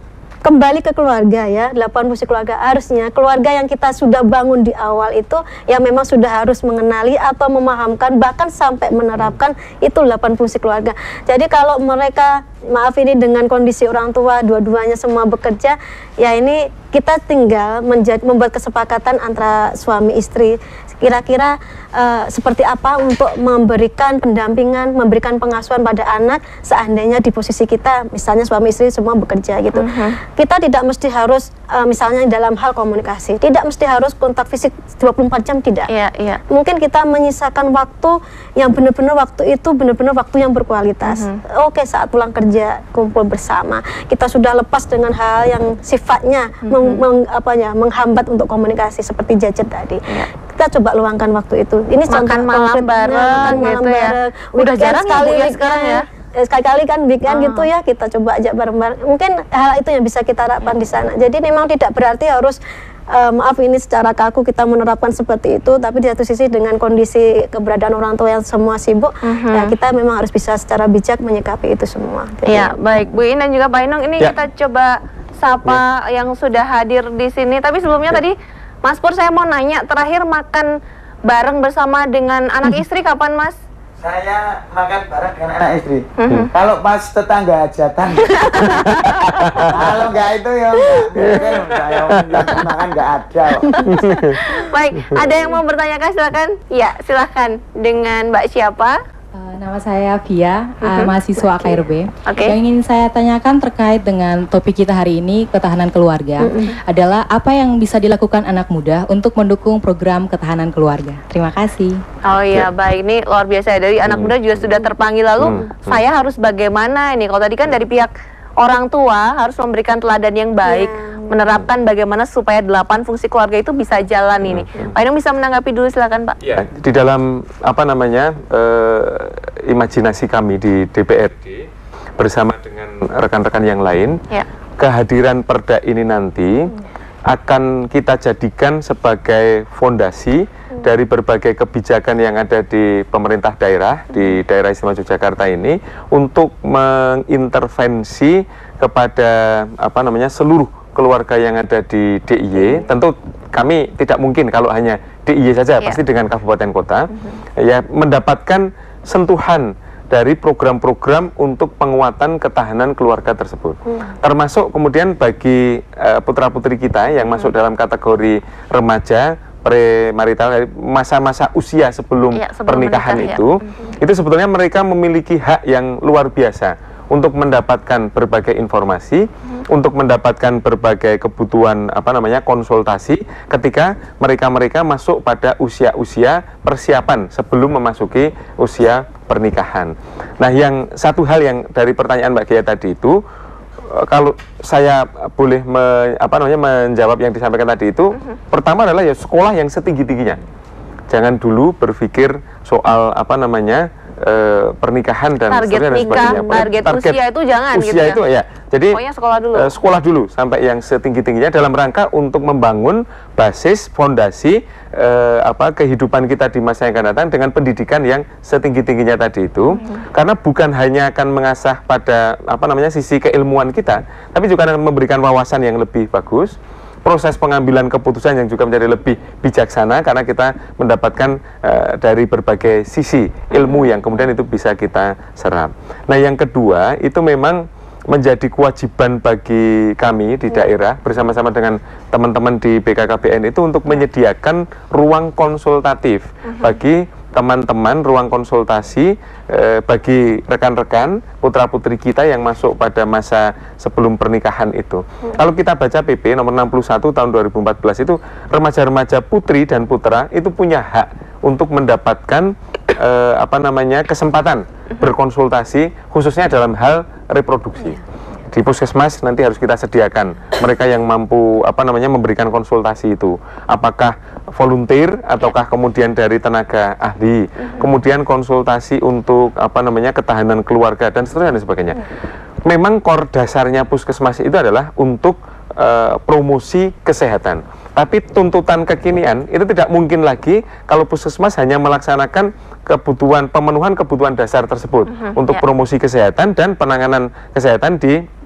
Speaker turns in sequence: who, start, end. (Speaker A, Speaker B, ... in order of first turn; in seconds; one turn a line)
Speaker A: 0.4-35.9
Speaker B: 29.7-30.1
Speaker B: 35.9-36.4
Speaker A: 36.5-62.6
Speaker B: 41.0-41.4
Speaker B: 46.6-47.0
Speaker B: 52.1-56.0
Speaker B: 57.3-57.7
Speaker A: 63.1-72.7
Speaker B: 69.2-69.7
Speaker B: 72.5-80.7
Speaker B: 81.3-83.5
Speaker C: 84.0-88.4
Speaker B: 86.2-86.5
Speaker B: 88.2-89.3
Speaker D: 88.7-89.7
Speaker C: 89.7-93.7
Speaker D: 92.1-92.6
Speaker A: 93.7-94.0
Speaker D: 93.8-94.4
Speaker B: 94.4-99.0
Speaker E: 99.4-112.0
Speaker B: 100.8-101.1
Speaker A: 101.3-101.8
Speaker B: 102.2-102.5
Speaker A: 106.4-106.8
Speaker B: 112.2-126.4
Speaker D: 114.0-114.5
Speaker D: 115.4-116.0
Speaker A: 120.6-121.4
Speaker D: 124.4-125.0
Speaker D: 126.5-131.7
Speaker D: 132.2-134.2
Speaker D: 134.8-136.7
Speaker D: 137.3-193.2
Speaker B: 172.3-173.8
Speaker D: 193.9-200.4
Speaker D: 201.1-207.2
Speaker B: 205.5-208.2
Speaker A: 206.0-206.7
Speaker D: 207.7-209.0
Speaker B: 208.9-209.7
Speaker D: 209.5-282.0
Speaker B: 233.5-233.8
Speaker B: 246.5-246.8
Speaker D: 282.6-298.2
Speaker B: 295.1-295.6